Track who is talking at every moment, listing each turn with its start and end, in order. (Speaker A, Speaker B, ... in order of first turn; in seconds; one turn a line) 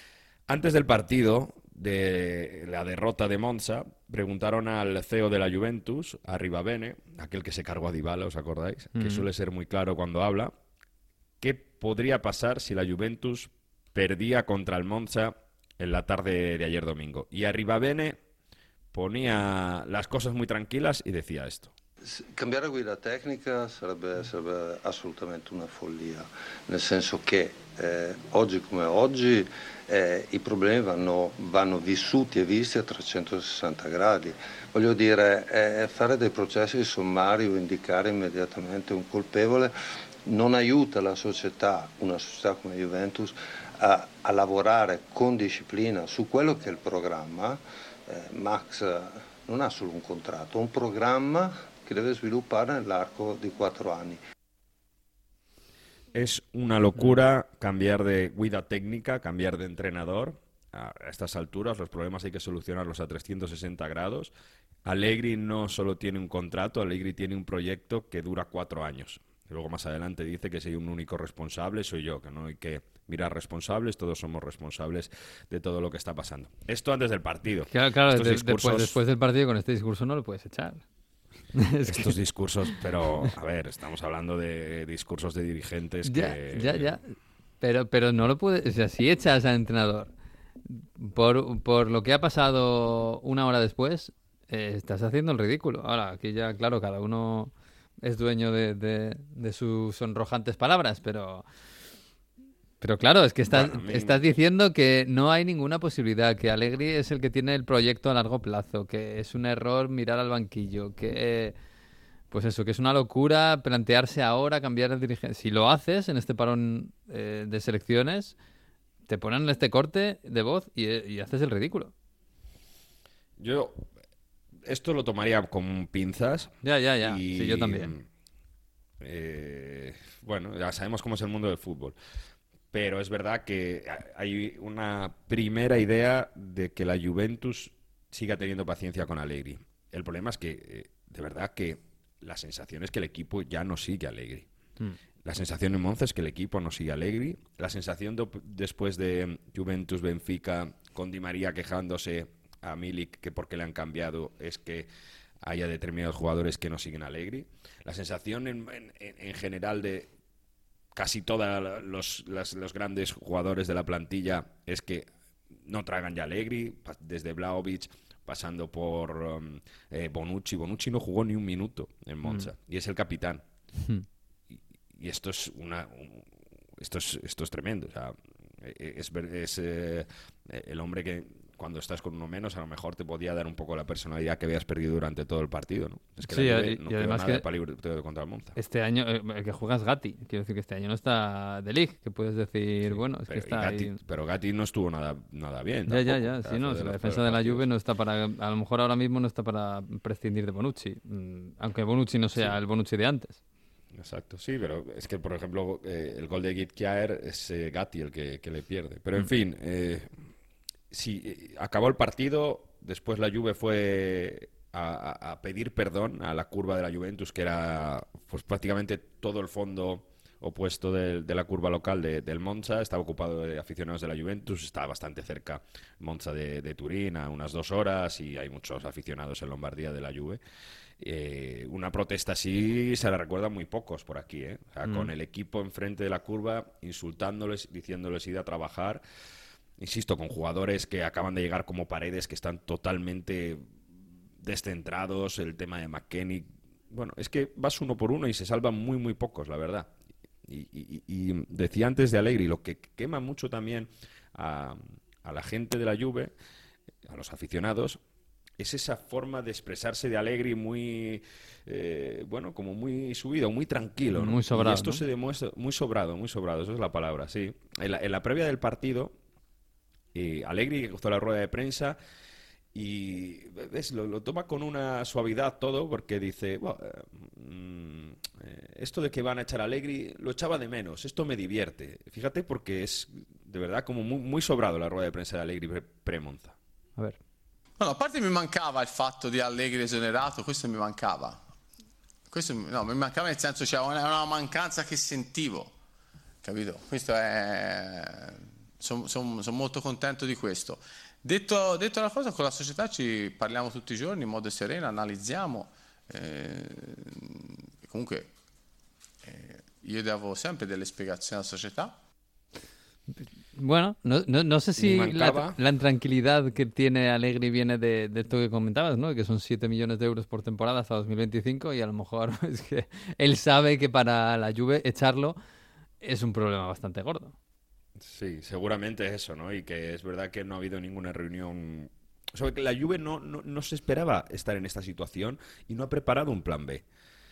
Speaker A: 0.5-10.5
Speaker B: 8.9-9.3
Speaker A: 11.4-18.2
Speaker A: 18.9-21.7
Speaker C: 22.0-39.7
Speaker C: 40.3-54.2
Speaker A: 56.1-64.3
Speaker A: 64.8-79.0
Speaker B: 77.7-80.8
Speaker B: 81.5-82.2
Speaker A: 81.8-87.0
Speaker B: 86.0-90.1
Speaker B: 90.7-101.4
Speaker B: 102.8-111.5
Speaker A: 103.5-104.2
Speaker B: 112.3-118.4
Speaker B: 119.1-121.9
Speaker A: 123.4-123.9
Speaker A: 124.6-128.1
Speaker B: 126.6-127.9
Speaker A: 129.0-132.0
Speaker A: 132.7-144.5
Speaker A: 145.2-154.9
Speaker A: 155.4-160.1
Speaker A: 160.9-173.4
Speaker B: 172.2-172.5
Speaker A: 174.9-188.6
Speaker B: 186.2-187.4
Speaker B: 188.6-194.0
Speaker A: 192.9-197.7
Speaker B: 195.9-203.4
Speaker A: 203.9-210.1
Speaker A: 210.9-230.4
Speaker A: 231.0-239.0
Speaker A: 239.8-243.7
Speaker A: 244.4-249.9
Speaker A: 250.4-256.4
Speaker A: 257.1-258.0
Speaker A: 258.6-269.1
Speaker B: 264.1-265.0
Speaker A: 270.1-272.0
Speaker A: 272.7-286.6
Speaker D: 287.8-291.4
Speaker D: 292.3-295.7
Speaker D: 296.4-308.3
Speaker D: 309.2-312.0
Speaker B: 313.6-325.4
Speaker A: 314.8-315.6
Speaker B: 326.0-327.4
Speaker A: 328.0-336.9